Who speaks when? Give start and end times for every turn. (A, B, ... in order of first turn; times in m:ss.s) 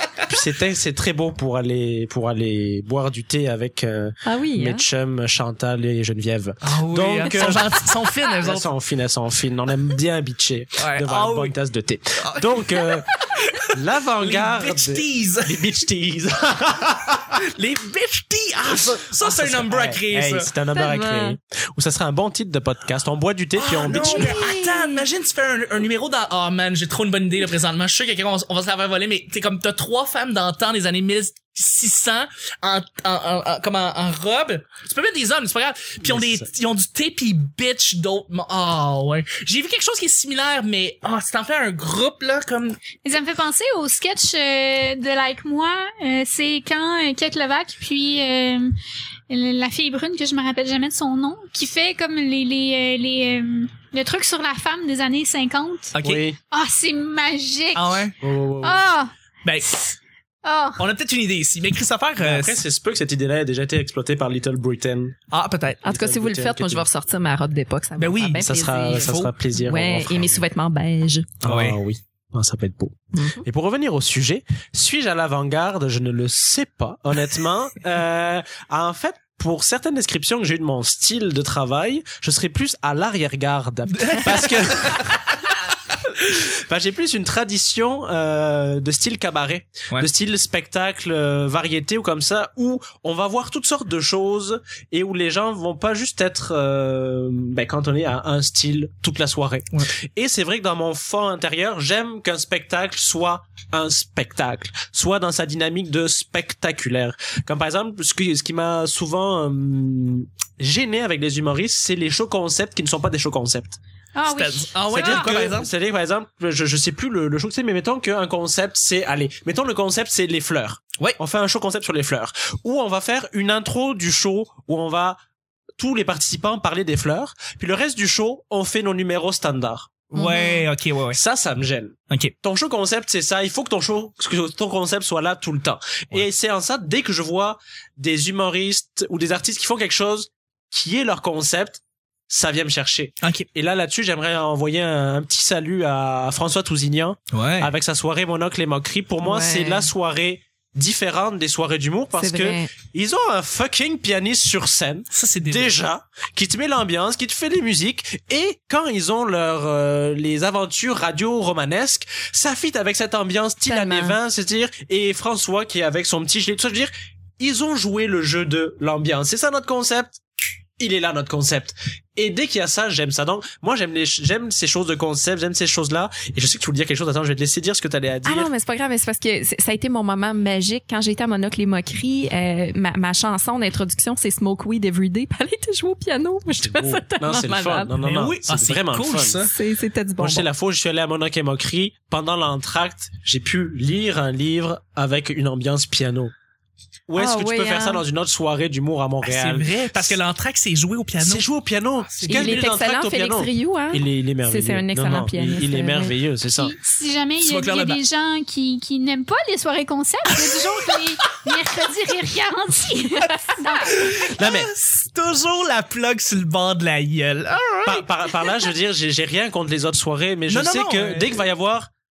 0:00.2-0:07.9 A
0:04.2-0:04.8 B
0:06.6-0:08.7 C
0:08.4-0:13.1 A
0:10.8-0:11.5 C
0:12.2-0:13.6 C
0:13.7-0:17.4 A
0:14.2-0:15.8 C
0:17.3-0:20.5 C
0:18.7-0:24.4 A
0:20.7-0:21.4 B
0:23.6-0:42.8 C
0:23.8-0:25.0 B
0:36.0-0:36.5 A
0:43.0-0:48.8 D
0:49.3-0:56.0 D
0:56.0-0:56.2 C
0:56.0-0:56.4 A
0:56.5-0:58.0 D
0:57.8-0:58.2 C
0:58.2-0:58.8 A
0:58.6-0:59.1 D
0:59.4-0:59.8 C
0:59.7-1:00.8 D
1:00.8-1:02.6 C
1:02.2-1:05.2 A
1:05.3-1:05.9 C
1:05.8-1:11.3 B
1:05.9-1:06.8 A
1:08.0-1:09.3 C
1:08.4-1:10.4 A
1:11.4-1:25.4 A
1:11.4-1:11.8 C
1:13.2-1:13.4 B
1:23.9-1:25.1 C
1:26.0-1:53.8 A
1:54.2-1:55.3 D
1:54.3-1:55.7 C
1:54.9-2:05.2 A
2:05.8-2:10.1 A
2:10.1-2:11.2 C
2:10.2-2:10.7 B
2:11.1-2:58.5 A
2:23.2-2:23.5 C
2:27.3-2:27.7 C
2:29.2-2:29.9 B
2:32.2-2:32.7 B
2:35.1-2:35.8 C
2:43.7-2:44.2 B
2:58.2-3:08.0 B
3:06.6-3:09.4 A
3:08.0-3:09.5 C
3:09.4-3:10.5 B
3:10.2-3:16.3 A
3:17.1-3:20.2 A
3:17.2-3:18.0 B
3:19.2-3:21.4 C
3:21.2-3:26.7 A
3:22.0-3:22.7 C
3:22.2-3:26.2 B
3:26.6-3:34.0 D
3:27.4-3:28.0 C
3:30.3-3:30.7 C
3:33.2-3:38.7 C
3:33.6-3:34.0 B
3:34.2-3:34.7 A
3:37.9-3:41.9 A
3:40.5-3:41.5 C